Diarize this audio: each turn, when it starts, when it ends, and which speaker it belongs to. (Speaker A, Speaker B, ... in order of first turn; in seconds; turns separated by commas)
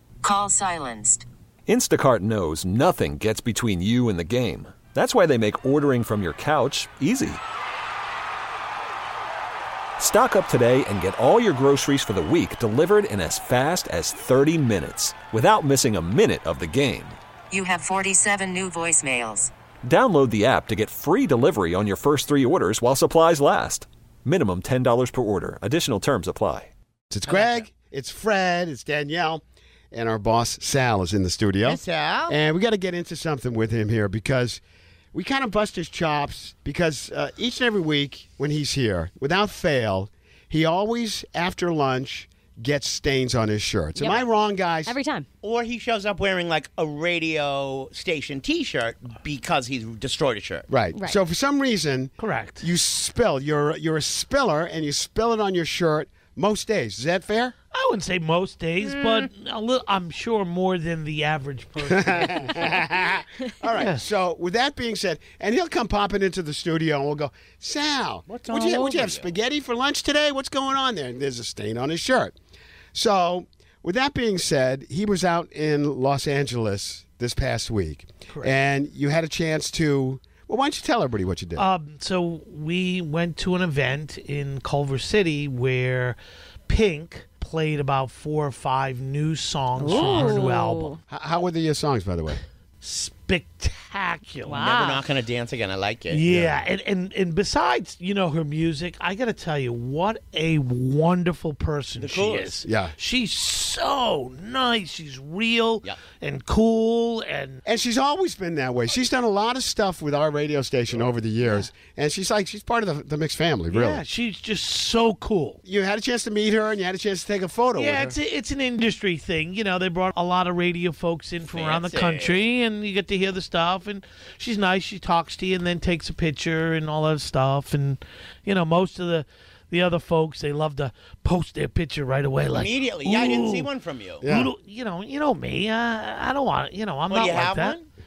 Speaker A: 0.2-1.2, Speaker B: 1.7-7.4, Speaker B: 10.0-17.2, Speaker A: 17.5-19.5, Speaker B: 19.8-26.7, Speaker C: 27.1-34.6, Speaker D: 27.3-27.7, Speaker D: 31.6-32.4, Speaker C: 35.1-44.9, Speaker E: 44.0-44.2, Speaker E: 44.8-45.3, Speaker D: 45.4-50.7, Speaker C: 50.7-57.5, Speaker E: 50.9-51.2, Speaker F: 52.2-52.7, Speaker F: 57.7-62.8, Speaker C: 61.8-72.3, Speaker F: 63.8-64.0, Speaker D: 68.3-69.3, Speaker C: 72.9-81.7, Speaker F: 78.3-78.6, Speaker F: 81.5-86.2, Speaker F: 86.7-90.9, Speaker E: 89.8-91.0, Speaker C: 90.0-90.2, Speaker C: 91.1-92.4, Speaker F: 92.8-94.6, Speaker E: 94.4-95.0, Speaker D: 94.6-96.6, Speaker F: 96.1-107.6, Speaker D: 102.0-102.6, Speaker C: 102.6-102.9, Speaker C: 107.6-114.0, Speaker F: 111.4-111.7, Speaker F: 113.7-115.6, Speaker C: 115.6-118.2, Speaker F: 117.7-133.6, Speaker D: 121.5-122.4, Speaker D: 132.4-134.2, Speaker C: 134.2-134.5, Speaker F: 134.2-137.8, Speaker D: 137.1-137.8